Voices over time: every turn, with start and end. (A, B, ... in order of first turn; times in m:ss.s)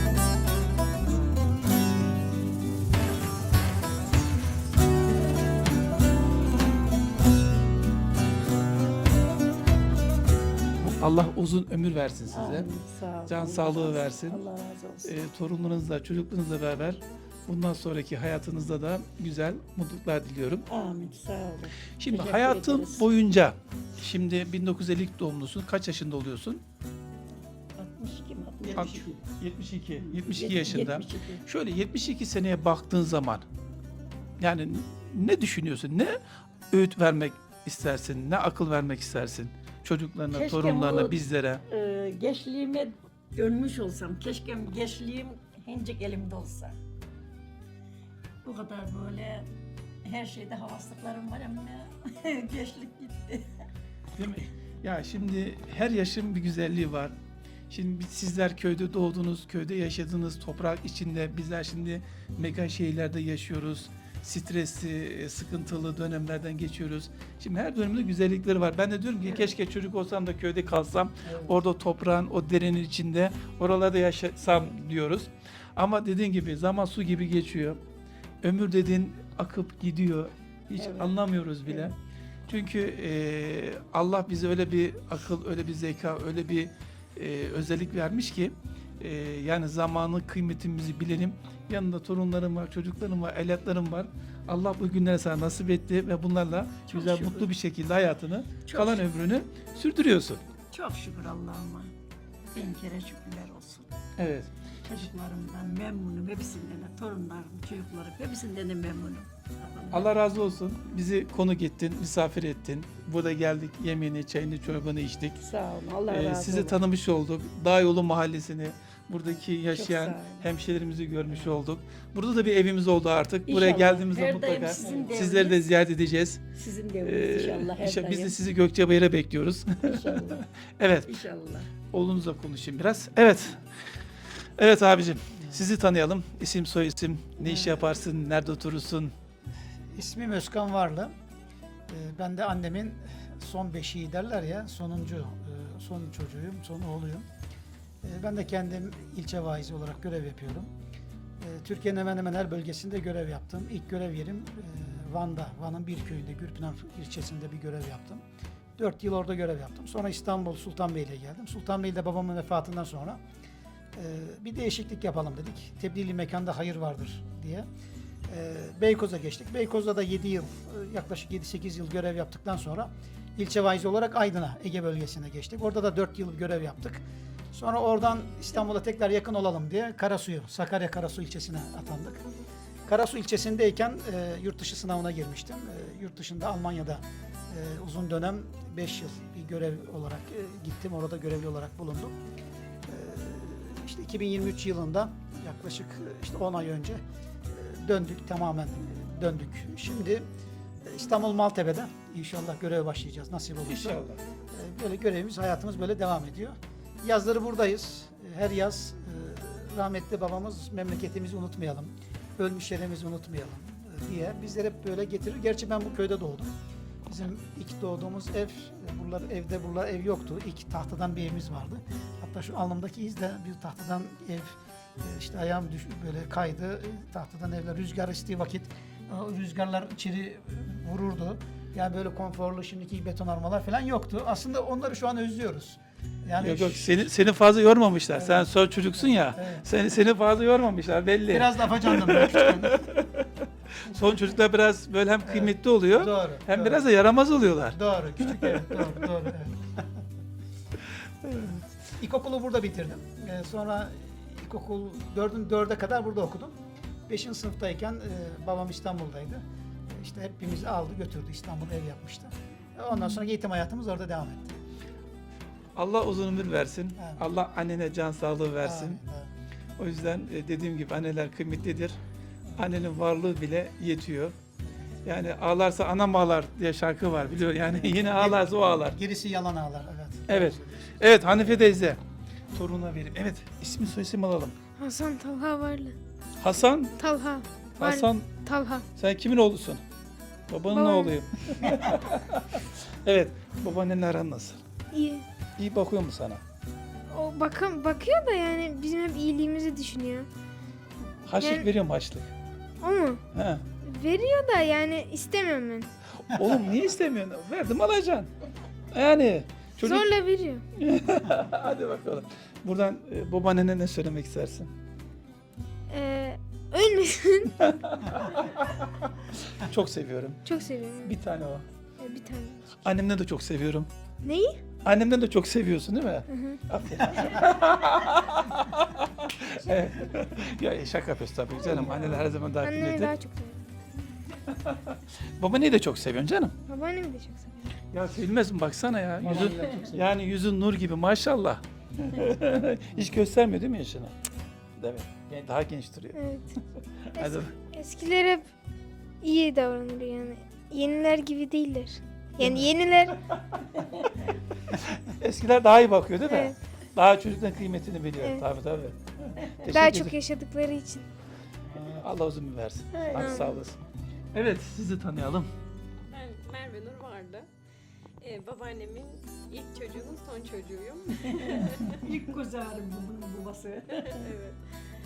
0:10.8-0:12.7 A
0:12.3-0:15.1 B
0:13.3-0:14.4 A
0:15.0-0:20.6 A
0:20.7-0:23.1 B
0:22.0-0:26.6 A
0:27.8-0:29.0 B
0:28.7-0:33.4 A
0:30.0-0:31.4 B
0:34.4-0:36.2 A
0:36.7-0:41.6 A
0:40.3-0:46.7 B
0:48.4-0:49.5 B
0:50.0-0:53.5 B
0:54.2-0:57.1 A
0:57.7-1:17.8 A
1:18.4-1:21.9 A
1:20.8-1:21.2 B
1:22.5-1:40.4 A
1:36.9-1:37.5 B
1:38.6-1:39.0 B
1:40.7-1:41.9 B
1:42.5-1:43.9 B
1:44.2-1:44.5 A
1:44.8-1:50.1 B
1:49.9-1:55.4 A
1:55.4-1:56.8 B
1:56.1-2:06.4 A
1:59.7-2:00.5 B
2:03.5-2:05.6 B
2:06.5-2:08.4 B
2:07.0-2:11.1 A
2:09.8-2:10.4 B
2:11.0-2:11.7 B
2:11.9-2:13.6 A
2:14.6-2:19.1 A
2:17.4-2:17.8 C
2:20.0-2:21.1 C
2:21.9-2:27.2 C
2:28.0-2:30.7 C
2:31.4-2:38.2 C
2:38.8-2:43.2 C
2:43.9-2:47.7 C
2:48.3-2:57.0 C
2:57.5-3:02.2 C
3:02.9-3:12.1 C
3:12.9-3:17.0 C
3:17.5-3:20.2 C
3:20.8-3:36.5 C
3:23.7-3:24.2 A
3:37.1-3:57.1 C
3:56.4-4:03.3 A
3:58.1-3:58.5 C
3:59.3-3:59.6 C
4:01.3-4:02.8 C
4:03.8-4:08.9 A
4:05.2-4:06.9 C
4:07.7-4:09.8 C
4:11.2-4:11.5 A
4:12.0-4:16.5 C
4:17.1-4:24.6 C
4:25.8-4:29.0 A
4:27.0-4:27.2 C
4:28.6-4:29.3 C
4:29.8-4:32.0 A
4:32.6-4:34.4 A
4:35.0-4:39.0 A
4:37.4-4:41.4 C
4:40.3-4:42.0 A
4:42.5-4:44.5 A
4:44.8-4:46.0 D
4:46.4-4:47.0 A
4:47.0-4:48.8 D
4:47.8-4:48.3 A
4:49.0-4:49.8 A
4:50.5-4:54.6 A
4:50.7-4:51.2 D
4:54.9-4:55.2 D
4:55.6-4:56.4 A
4:57.1-5:00.3 D
5:01.3-5:02.3 A
5:01.4-5:01.7 D
5:02.8-5:03.2 D
5:03.3-5:03.6 A
5:03.8-5:05.9 D
5:06.2-5:08.3 A
5:08.9-5:10.1 A
5:09.8-5:10.6 D
5:10.8-5:14.7 A
5:15.9-5:17.6 D
5:17.6-5:18.8 A
5:19.5-5:20.4 A
5:20.4-5:21.2 D
5:21.0-5:21.6 A
5:22.0-5:22.8 D
5:22.8-5:23.9 A
5:24.2-5:24.6 D
5:24.8-5:33.1 A
5:26.3-5:26.6 D
5:32.6-5:33.6 D
5:34.5-5:36.5 A
5:36.7-5:37.7 D
5:37.9-5:44.1 A
5:39.2-5:40.0 C
5:44.8-5:46.3 A
5:46.1-5:46.5 D
5:47.1-5:47.5 A
5:47.1-5:48.5 D
5:49.2-5:53.2 D
5:54.7-6:00.2 A
5:56.2-5:56.5 D
5:59.7-6:01.0 D
6:02.0-6:03.8 A
6:02.9-6:03.5 B
6:03.1-6:03.5 D
6:04.3-6:05.5 A
6:06.1-6:07.5 E
6:08.2-6:12.1 E
6:11.3-6:14.3 B
6:14.0-6:14.6 E